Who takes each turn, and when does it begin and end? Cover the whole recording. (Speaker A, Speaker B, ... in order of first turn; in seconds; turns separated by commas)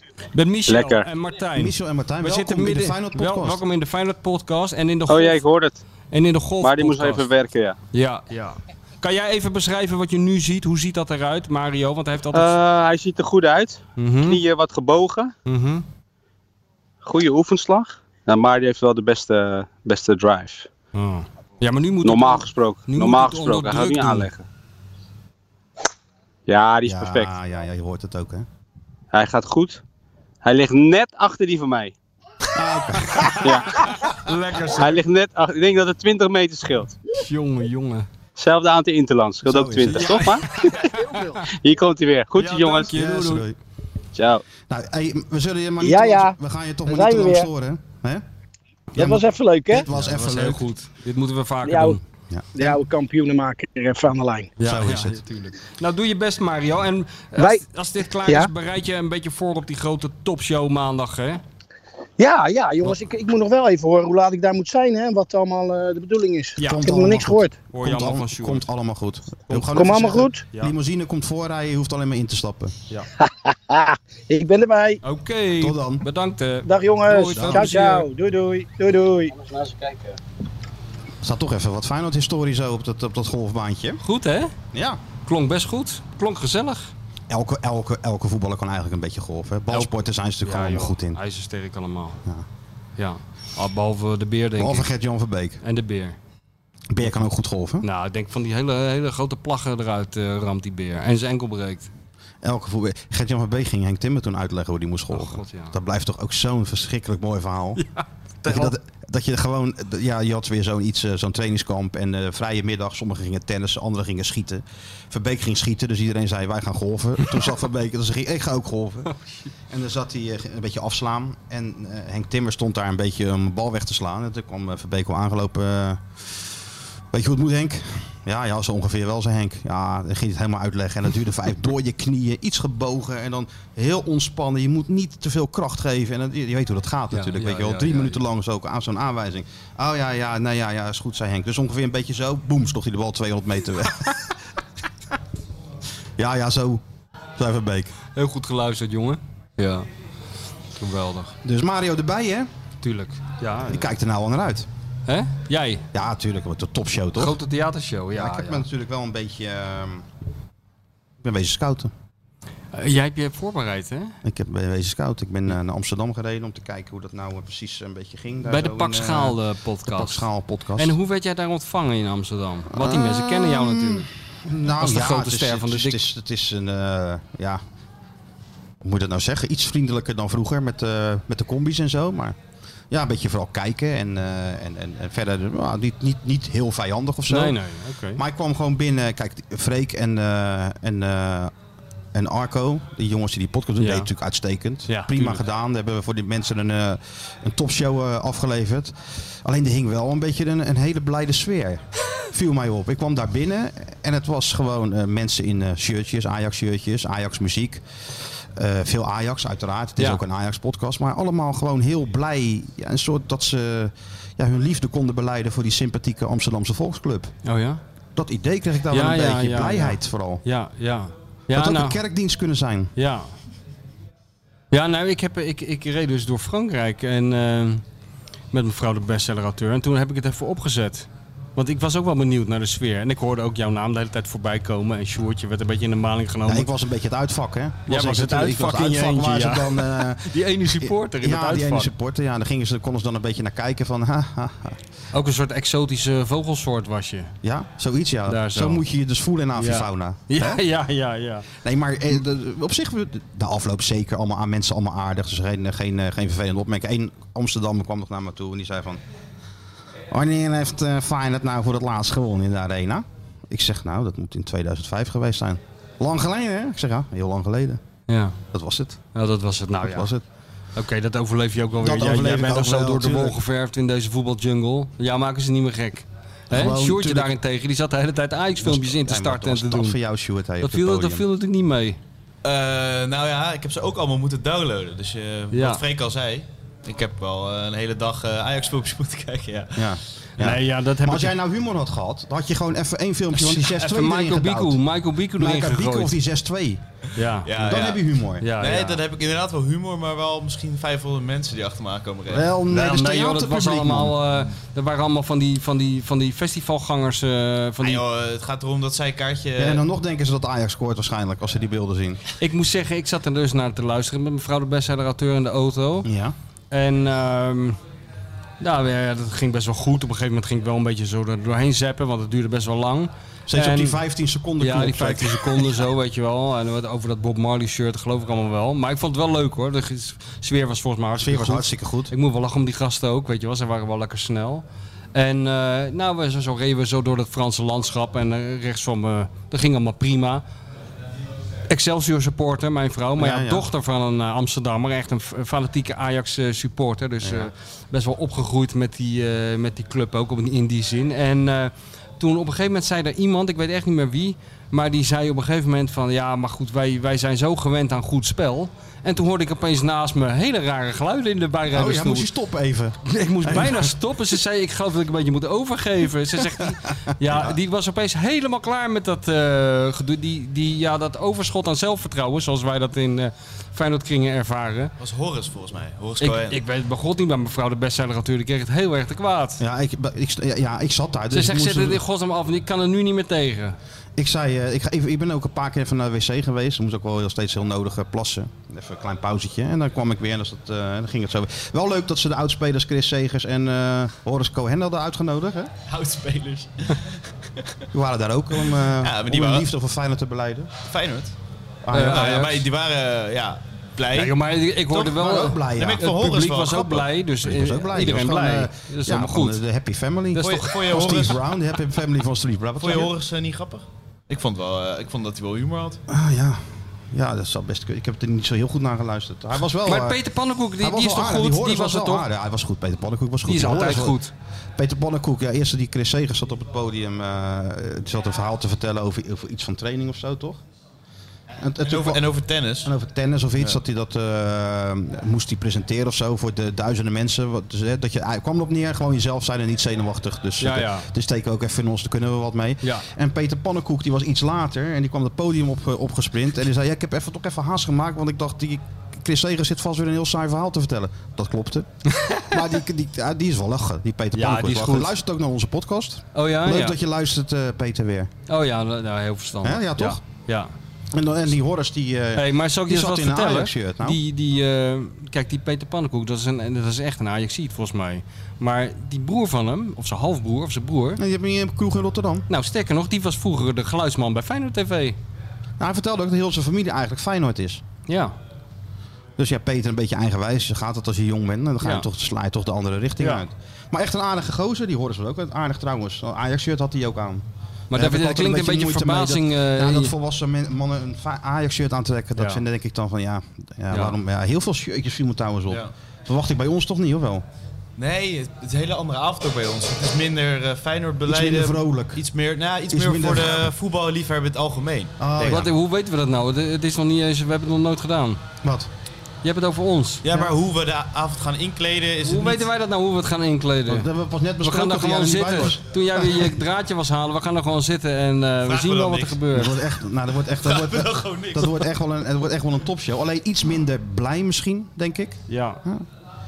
Speaker A: 0.3-5.4, Speaker B: 0.7-1.1, Speaker C: 1.5-3.6, Speaker B: 5.1-5.8, Speaker A: 6.1-7.2, Speaker B: 6.6-7.8, Speaker A: 7.9-12.5, Speaker B: 12.3-15.3, Speaker A: 14.0-14.4, Speaker A: 15.4-15.8, Speaker B: 17.0-20.7, Speaker A: 20.9-24.3, Speaker B: 22.0-24.4, Speaker B: 26.5-27.3, Speaker C: 26.8-28.4, Speaker B: 29.1-29.8, Speaker B: 30.4-31.9, Speaker C: 32.5-34.1, Speaker A: 33.0-35.0, Speaker B: 33.4-34.0, Speaker B: 34.7-37.0, Speaker A: 37.1-38.1, Speaker B: 38.4-42.9, Speaker C: 39.4-40.3, Speaker A: 39.9-41.1, Speaker A: 42.3-43.4, Speaker C: 42.9-43.6, Speaker B: 44.1-44.4, Speaker C: 44.7-48.2, Speaker D: 45.8-46.4, Speaker D: 46.9-47.5, Speaker C: 48.9-50.6, Speaker D: 49.0-49.9, Speaker A: 49.9-52.0, Speaker D: 51.6-52.0, Speaker C: 52.3-52.8, Speaker D: 52.5-54.5, Speaker A: 54.6-61.4, Speaker C: 54.6-55.2, Speaker D: 57.4-57.6, Speaker D: 58.2-58.5, Speaker D: 62.2-67.6, Speaker A: 66.6-66.9, Speaker C: 66.6-73.0, Speaker A: 67.7-68.7, Speaker A: 69.5-70.7, Speaker D: 69.7-70.5, Speaker D: 73.2-75.0, Speaker A: 75.0-78.1, Speaker C: 75.6-76.0, Speaker D: 76.6-79.3, Speaker C: 77.3-77.6, Speaker B: 79.5-80.0, Speaker C: 81.2-84.0, Speaker A: 84.0-84.5, Speaker C: 84.7-85.0, Speaker A: 85.2-86.9, Speaker C: 87.3-91.2, Speaker A: 90.4-92.2, Speaker A: 93.0-94.9, Speaker C: 94.6-95.6, Speaker A: 95.6-96.2, Speaker C: 96.9-97.8, Speaker A: 97.8-101.9, Speaker C: 102.4-107.8, Speaker A: 105.1-105.8, Speaker A: 107.8-108.7, Speaker C: 108.4-119.1, Speaker A: 119.1-119.5, Speaker C: 119.7-126.4, Speaker C: 127.1-144.4, Speaker A: 137.1-138.2, Speaker C: 146.2-146.8, Speaker C: 147.3-147.9, Speaker A: 148.1-149.9, Speaker A: 150.7-151.3, Speaker C: 151.4-152.5, Speaker A: 152.8-153.9, Speaker C: 153.7-154.7, Speaker A: 155.1-155.8, Speaker C: 155.9-157.4, Speaker A: 157.2-158.6, Speaker C: 158.1-160.1, Speaker C: 161.2-161.9, Speaker A: 162.7-164.1, Speaker C: 164.2-170.9, Speaker A: 168.4-174.1, Speaker C: 172.7-177.6, Speaker A: 174.8-176.0, Speaker C: 178.8-182.4, Speaker C: 182.9-187.6, Speaker A: 187.3-188.2, Speaker C: 188.2-191.5, Speaker C: 192.1-207.8, Speaker A: 193.8-194.1, Speaker A: 194.9-195.4, Speaker C: 208.5-217.3, Speaker A: 217.4-217.8, Speaker C: 218.2-220.4, Speaker A: 218.9-222.0, Speaker C: 221.5-222.9, Speaker A: 222.9-223.3, Speaker A: 224.7-227.8, Speaker A: 228.5-236.7, Speaker C: 236.4-244.8, Speaker A: 237.9-241.9, Speaker A: 245.1-247.3, Speaker C: 247.4-250.6, Speaker A: 248.3-248.8, Speaker A: 249.5-251.5, Speaker C: 251.6-259.0, Speaker C: 260.1-267.8, Speaker A: 268.1-268.4, Speaker C: 268.5-269.0, Speaker A: 269.1-270.1, Speaker C: 269.8-270.2, Speaker A: 270.7-280.0, Speaker C: 271.8-273.4, Speaker C: 276.5-277.3, Speaker C: 278.6-281.2, Speaker A: 280.6-282.0, Speaker E: 282.4-289.9, Speaker A: 285.5-285.8, Speaker C: 289.8-294.8, Speaker A: 290.4-291.3, Speaker A: 293.3-296.1, Speaker C: 295.4-296.8, Speaker A: 297.1-297.5, Speaker E: 297.4-298.1, Speaker C: 297.5-298.5, Speaker A: 298.4-299.0, Speaker E: 298.6-302.5, Speaker C: 302.3-304.2, Speaker A: 302.7-308.0, Speaker E: 307.8-309.8, Speaker C: 309.6-312.2, Speaker A: 312.4-316.1, Speaker C: 316.0-316.3, Speaker A: 316.7-317.8, Speaker A: 318.6-324.0, Speaker C: 323.5-325.8, Speaker A: 324.6-340.4, Speaker C: 331.1-332.1, Speaker A: 341.7-362.3, Speaker C: 343.2-343.6, Speaker C: 347.2-347.5, Speaker C: 361.7-363.9, Speaker A: 363.1-374.9, Speaker C: 366.4-367.6, Speaker E: 375.0-376.6, Speaker A: 376.2-379.6, Speaker C: 379.6-382.0, Speaker A: 381.3-383.8, Speaker C: 384.2-395.7, Speaker E: 395.9-397.7, Speaker C: 397.9-400.7, Speaker E: 398.8-399.7, Speaker E: 400.8-401.3, Speaker C: 401.8-402.6, Speaker A: 401.9-402.6, Speaker E: 402.0-405.1, Speaker A: 404.1-409.6, Speaker C: 405.0-406.1, Speaker E: 405.7-407.1, Speaker C: 407.4-413.1, Speaker A: 410.4-410.6, Speaker E: 410.4-411.4, Speaker E: 412.8-416.0, Speaker C: 416.1-420.2, Speaker A: 419.8-422.3, Speaker C: 420.8-424.2, Speaker A: 423.4-424.3, Speaker C: 424.8-430.6, Speaker C: 431.6-432.2, Speaker E: 431.8-432.9, Speaker C: 432.8-458.3, Speaker A: 440.6-441.1, Speaker A: 452.1-452.6, Speaker A: 454.3-455.1, Speaker A: 456.3-457.0, Speaker A: 458.5-460.7, Speaker C: 459.6-460.2, Speaker C: 461.1-464.2, Speaker A: 462.4-471.2, Speaker C: 471.2-472.5, Speaker A: 472.5-475.2, Speaker C: 475.8-477.8, Speaker A: 478.1-478.3, Speaker C: 479.4-497.4, Speaker A: 481.8-482.1, Speaker A: 487.9-490.1, Speaker A: 492.4-492.6, Speaker A: 493.9-494.2, Speaker E: 498.0-505.6, Speaker C: 501.3-502.2, Speaker C: 502.9-503.7, Speaker C: 505.2-505.7, Speaker A: 505.4-508.4, Speaker C: 508.6-508.9, Speaker A: 509.4-510.2, Speaker E: 510.2-512.6, Speaker A: 512.2-514.1, Speaker C: 513.9-516.5, Speaker A: 514.6-519.8, Speaker E: 518.6-519.4, Speaker C: 519.5-526.0, Speaker E: 520.6-521.8, Speaker A: 525.5-525.8